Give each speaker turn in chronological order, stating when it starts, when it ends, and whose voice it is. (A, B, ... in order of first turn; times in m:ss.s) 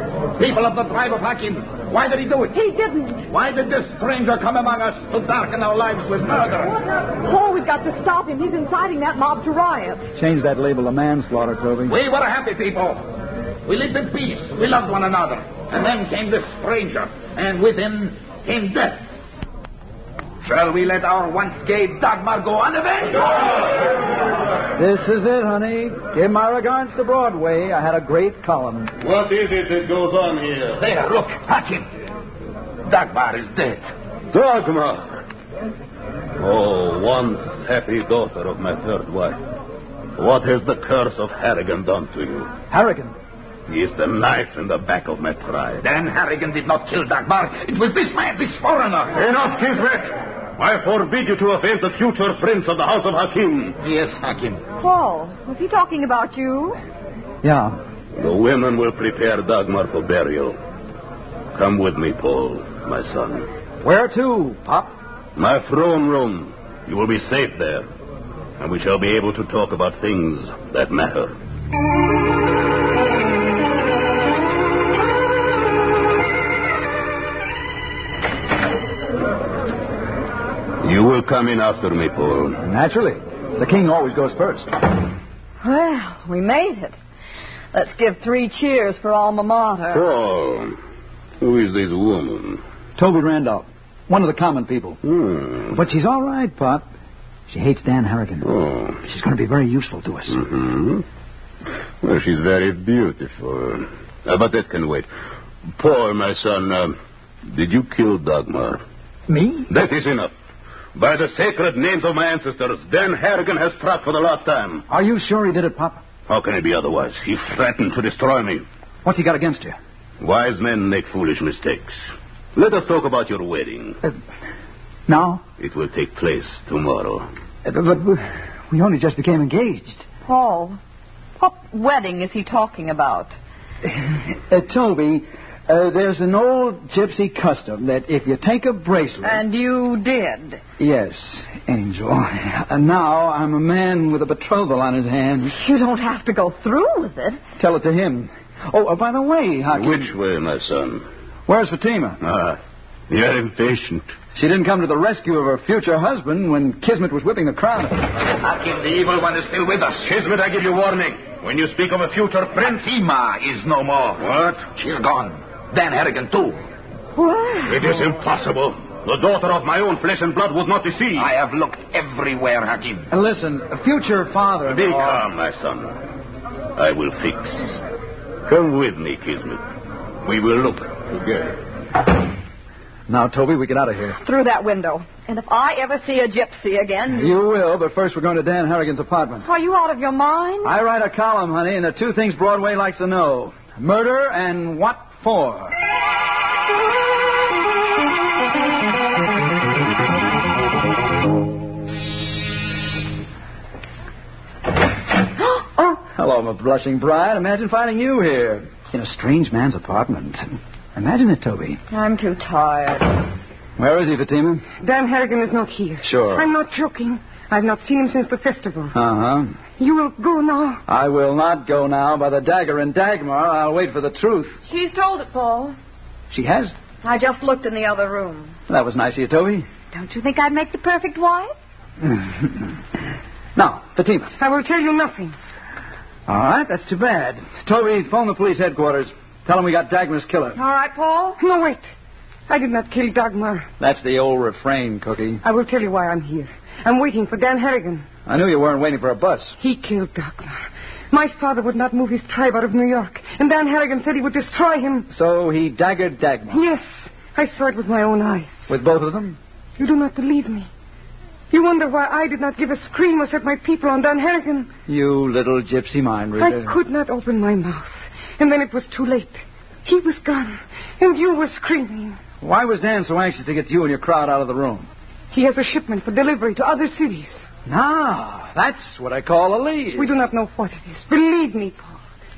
0:00.4-0:02.5 A
0:02.5-0:03.3 B
0:03.3-0:06.7 A
0:06.8-0:10.1 B
0:10.1-0:11.9 C
0:11.9-0:13.0 A
0:13.6-0:19.0 A
0:20.4-0:23.8 A
0:24.8-0:28.9 C
0:29.0-0:30.8 D
0:30.8-0:31.9 A
0:32.8-0:33.8 A
0:34.3-0:35.2 D
0:36.4-0:39.4 D
0:40.2-0:42.6 D
0:42.7-0:43.1 C
0:43.7-0:45.8 D
0:45.8-0:49.2 A
0:49.1-0:53.8 D
0:53.8-0:54.6 A
0:54.8-0:56.8 B
0:57.4-0:57.8 C
0:58.2-1:00.6 D
1:01.5-1:03.5 D
1:03.8-1:04.9 C
1:05.4-1:07.9 D
1:08.6-1:11.3 D
1:20.8-1:22.6 D
1:22.6-1:24.7 C
1:25.6-1:27.0 B
1:27.7-1:30.1 B
1:29.9-1:30.8 D
1:31.4-1:32.6 D
1:33.0-1:35.0 C
1:35.0-1:35.8 D
1:35.7-1:36.8 C
1:37.5-1:38.5 C
1:38.4-1:39.0 D
1:39.0-1:40.4 C
1:40.3-1:41.0 D
1:42.0-1:45.1 D
1:45.8-1:46.9 D
1:47.4-1:48.8 D
1:49.3-1:49.7 C
1:49.7-1:50.3 D
1:50.9-1:54.8 D
1:54.9-1:56.0 C
1:56.3-1:58.6 D
1:59.0-1:59.8 C
2:00.2-2:02.0 D
2:02.5-2:04.0 D
2:05.1-2:05.4 C
2:05.6-2:07.3 D
2:07.6-2:10.0 C
2:10.2-2:10.8 B
2:11.4-2:13.3 B
2:13.8-2:19.4 C
2:19.2-2:20.6 B
2:20.8-2:25.6 C
2:25.4-2:27.4 B
2:27.6-2:30.1 C
2:29.7-2:31.0 D
2:31.5-2:32.2 C
2:32.2-2:32.6 D
2:33.1-2:34.1 D
2:34.3-2:38.0 C
2:38.2-2:40.1 A
2:40.0-2:42.7 D
2:42.6-2:46.6 A
2:44.2-2:44.6 D
2:47.2-2:47.9 B
2:47.6-2:51.3 D
2:51.2-2:53.1 A
2:53.1-2:55.3 C
2:54.6-2:56.0 D
2:56.8-2:57.8 D
2:58.4-2:59.6 D
3:00.2-3:01.6 D
3:03.1-3:04.2 C
3:04.2-3:07.4 B
3:07.1-3:09.4 C
3:09.4-3:10.7 B
3:10.6-3:15.7 C
3:25.8-3:31.8 C
3:31.9-3:33.2 B
3:33.8-3:34.6 C
3:34.8-3:39.0 E
3:36.0-3:36.5 C
3:38.9-3:39.6 C
3:39.8-3:40.8 E
3:40.9-3:44.6 C
3:44.6-3:45.8 B
3:46.3-3:46.7 C
3:47.0-3:48.6 B
3:48.7-3:49.6 C
3:49.9-3:51.5 B
3:52.0-3:52.6 C
3:53.6-3:54.3 C
3:54.4-3:55.3 E
3:56.3-4:00.6 C
4:00.5-4:01.4 B
4:01.4-4:01.9 E
4:02.5-4:03.7 E
4:03.8-4:05.4 C
4:05.4-4:08.1 E
4:08.2-4:09.5 C
4:09.6-4:15.1 E
4:15.1-4:16.6 C
4:16.5-4:18.7 E
4:18.7-4:19.4 C
4:19.8-4:20.7 E
4:21.5-4:24.7 E
4:24.9-4:26.8 C
4:26.4-4:32.2 E
4:32.4-4:34.9 C
4:35.3-4:37.5 E
4:37.6-4:40.1 C
4:40.0-4:42.0 E